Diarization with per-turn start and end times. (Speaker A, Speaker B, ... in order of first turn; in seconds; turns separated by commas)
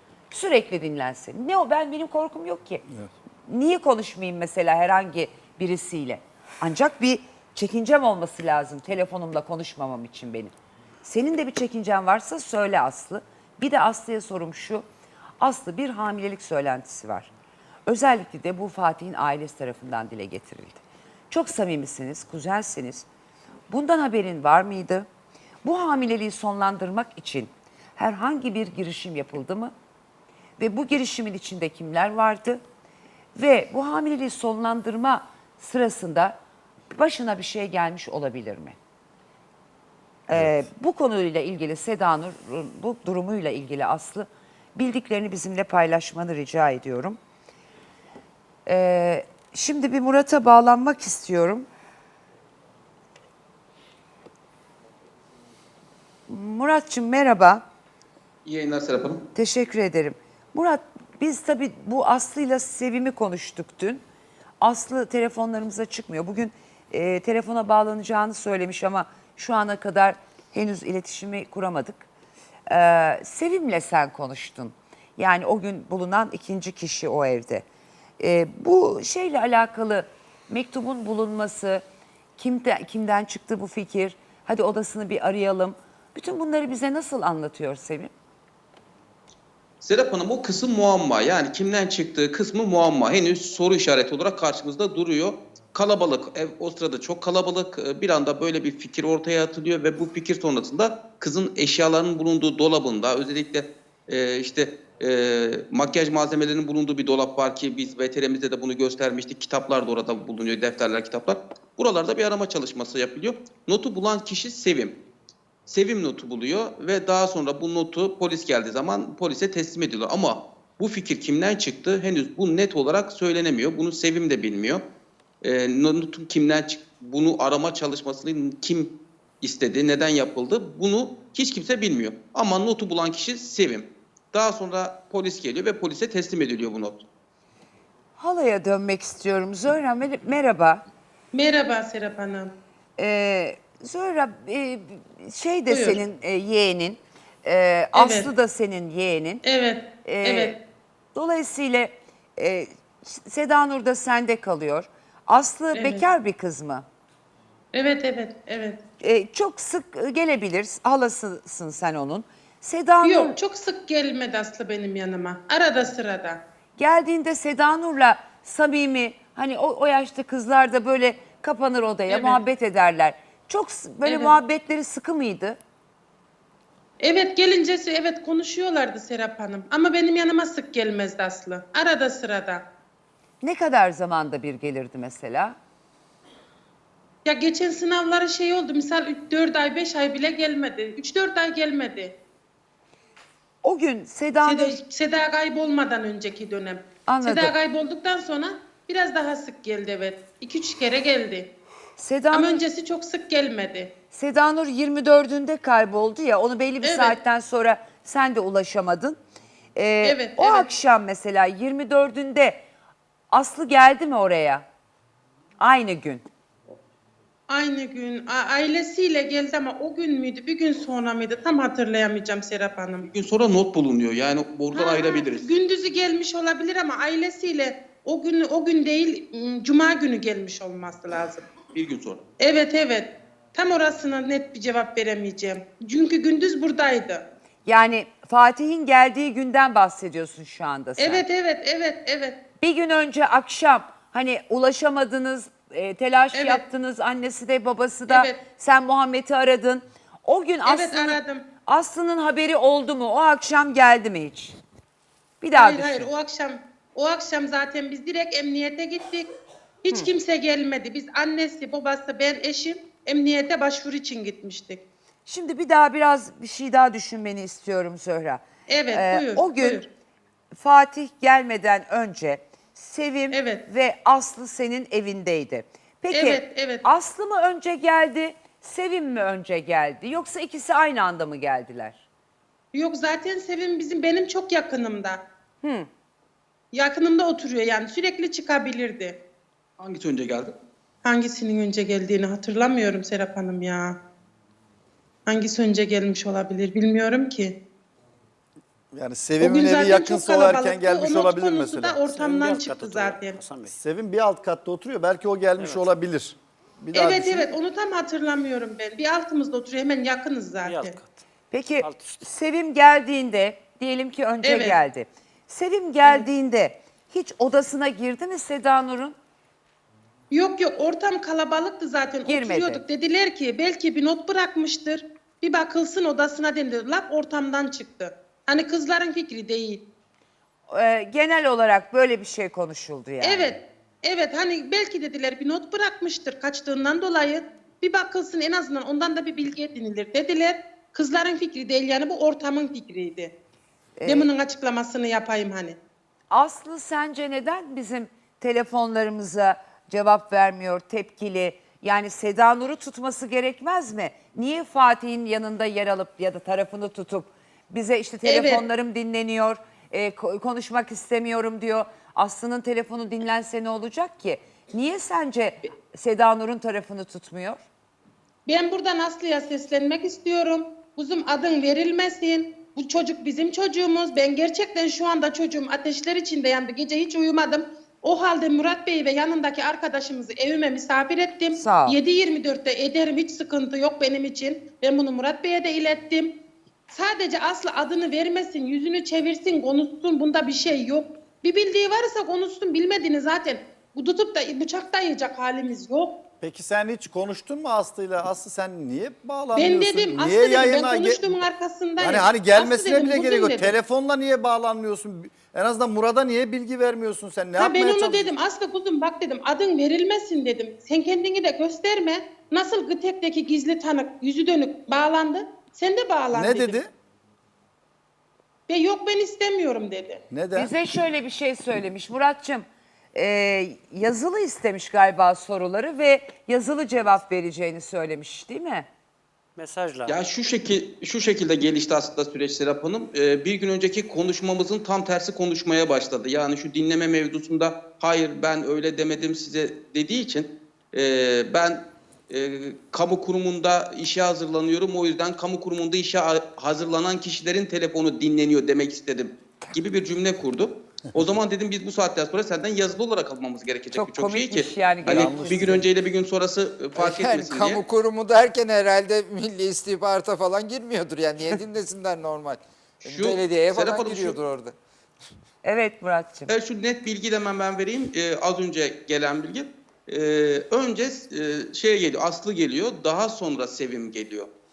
Speaker A: 0.3-2.9, Speaker A: 3.5-10.5, Speaker A: 11.0-14.8, Speaker A: 15.4-17.3, Speaker A: 17.9-23.1, Speaker A: 23.7-25.1, Speaker A: 25.6-29.7, Speaker A: 30.6-32.6, Speaker A: 33.4-36.4, Speaker A: 36.9-38.8, Speaker A: 40.3-47.2, Speaker A: 48.7-51.7, Speaker A: 56.3-57.6, Speaker B: 58.5-59.3, Speaker A: 59.4-64.0, Speaker A: 64.6-72.1, Speaker A: 72.7-77.7, Speaker A: 78.2-81.8, Speaker A: 82.4-88.1, Speaker B: 89.8-115.0, Speaker B: 115.7-124.8, Speaker B: 125.4-137.1, Speaker A: 138.2-140.8, Speaker C: 141.3-142.6, Speaker A: 143.0-149.4, Speaker C: 145.7-146.0, Speaker C: 147.9-148.3, Speaker C: 149.4-150.6, Speaker A: 150.0-150.6, Speaker A: 151.2-156.9, Speaker C: 155.7-156.1, Speaker C: 157.7-158.9, Speaker A: 159.0-163.4, Speaker C: 163.0-166.4, Speaker A: 166.8-175.6, Speaker C: 172.1-172.4, Speaker C: 174.1-174.4, Speaker C: 177.0-182.7, Speaker A: 183.4-185.6, Speaker C: 187.2-192.2, Speaker A: 193.6-194.8, Speaker C: 194.4-201.5, Speaker A: 197.1-197.6, Speaker A: 202.0-202.6, Speaker C: 202.3-203.9, Speaker A: 204.1-209.2, Speaker C: 206.8-207.2, Speaker A: 209.8-212.6, Speaker C: 210.0-210.7, Speaker A: 213.3-214.7, Speaker A: 215.6-216.2, Speaker C: 217.5-223.1, Speaker B: 223.1-225.6, Speaker C: 224.7-231.5, Speaker B: 231.7-232.2, Speaker C: 232.4-237.3, Speaker A: 237.7-241.2, Speaker C: 241.0-242.4, Speaker A: 242.6-254.6, Speaker C: 246.3-246.6, Speaker C: 248.1-248.4, Speaker C: 250.7-251.5, Speaker A: 255.4-256.1, Speaker C: 255.5-259.3, Speaker C: 259.8-264.8, Speaker A: 265.3-269.8, Speaker C: 268.7-269.9, Speaker A: 270.5-282.0, Speaker C: 273.3-273.6, Speaker C: 276.1-276.8, Speaker C: 282.7-285.2, Speaker A: 285.6-285.9, Speaker C: 286.7-289.2, Speaker B: 289.8-290.5, Speaker C: 291.0-294.0, Speaker C: 295.3-297.6, Speaker D: 298.9-302.6, Speaker C: 299.4-303.4, Speaker E: 302.1-303.8, Speaker D: 303.7-307.6, Speaker E: 305.6-305.9, Speaker C: 306.9-311.0, Speaker E: 310.6-311.2, Speaker A: 311.5-319.2, Speaker E: 311.8-312.2, Speaker C: 314.4-314.8, Speaker C: 320.3-329.9, Speaker A: 322.3-322.8, Speaker A: 330.7-333.6, Speaker C: 333.2-343.3, Speaker A: 344.0-344.3, Speaker C: 344.1-345.8, Speaker A: 346.3-367.6, Speaker C: 358.2-358.6, Speaker C: 368.5-386.4, Speaker A: 381.6-382.0, Speaker C: 386.9-396.2, Speaker D: 396.4-401.4, Speaker C: 399.6-403.7, Speaker D: 402.0-408.3, Speaker C: 407.6-416.8, Speaker D: 416.3-416.9, Speaker C: 418.7-420.2, Speaker D: 420.3-420.7, Speaker A: 420.6-428.9, Speaker E: 429.6-430.2, Speaker B: 430.1-457.8, Speaker A: 453.9-455.5, Speaker D: 455.1-455.9, Speaker F: 457.0-464.8, Speaker B: 463.1-464.4, Speaker A: 465.6-466.5, Speaker B: 466.5-474.5